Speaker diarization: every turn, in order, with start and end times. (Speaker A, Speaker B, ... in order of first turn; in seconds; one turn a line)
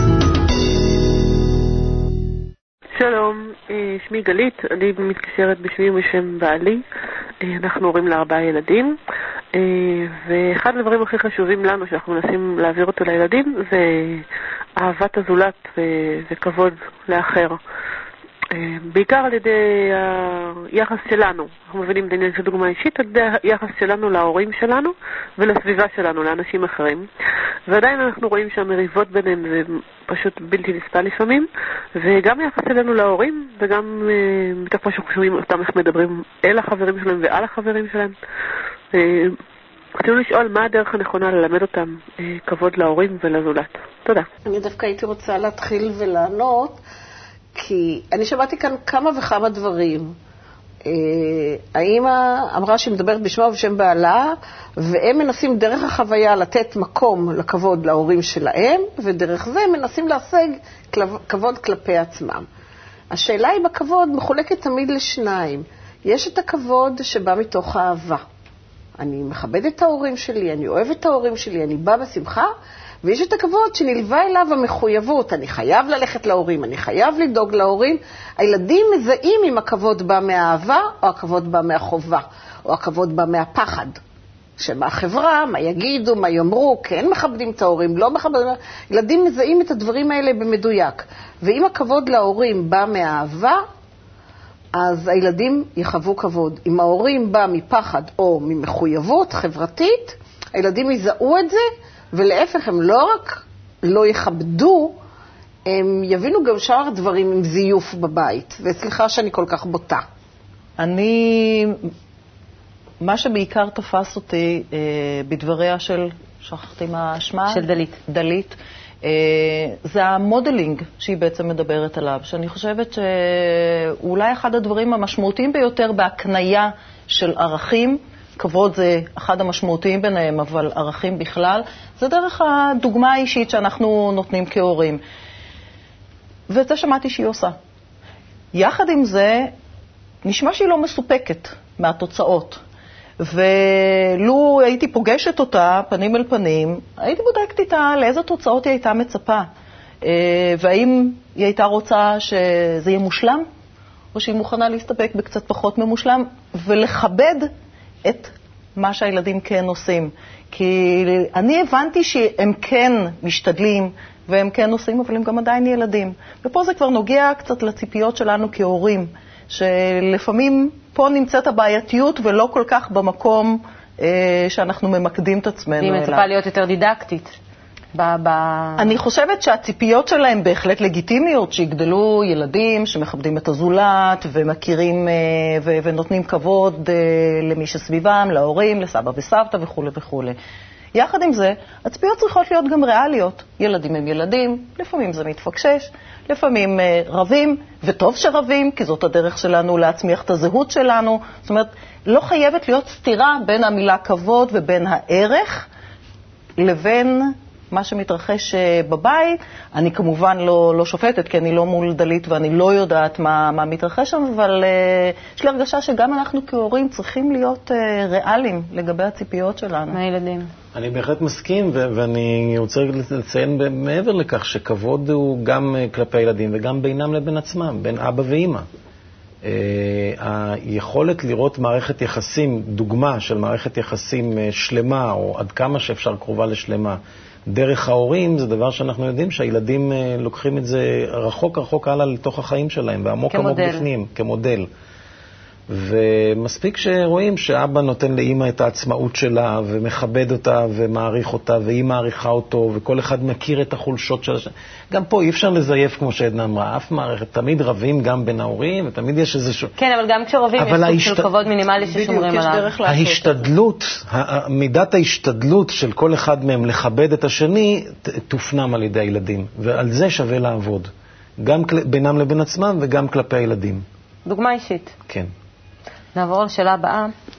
Speaker A: 3.0-6.8
Speaker A: 7.4-9.0
Speaker A: 9.5-14.2
Speaker A: 14.8-17.6
Speaker A: 18.5-27.1
Speaker A: 27.7-38.2
Speaker A: 38.9-39.4
Speaker A: 40.0-44.3
Speaker B: 44.5-46.8
Speaker B: 47.5-50.1
Speaker B: 50.9-62.5
Speaker B: 63.1-68.2
Speaker B: 69.0-72.5
Speaker B: 73.0-84.0
Speaker B: 84.6-93.6
Speaker B: 94.8-105.0
Speaker B: 105.7-110.0
Speaker C: 110.8-111.8
Speaker C: 113.0-135.0
Speaker D: 117.5-118.0
Speaker C: 136.5-137.6
Speaker C: 138.5-139.5
Speaker C: 140.2-142.6
Speaker C: 143.2-149.5
Speaker C: 150.0-153.5
Speaker C: 154.1-157.5
Speaker C: 158.0-176.3
Speaker D: 175.8-177.4
Speaker D: 177.9-178.9
Speaker C: 178.8-190.4
Speaker C: 190.9-205.7
Speaker C: 206.6-220.0
Speaker D: 219.9-220.5
Speaker E: 220.7-228.7
Speaker E: 229.4-244.7
Speaker D: 243.3-243.8
Speaker E: 245.7-259.7
Speaker D: 259.8-262.7
Speaker E: 260.6-261.3
Speaker C: 261.8-263.5
Speaker E: 262.9-270.9
Speaker E: 271.4-273.9
Speaker D: 274.3-274.9
Speaker D: 276.1-277.1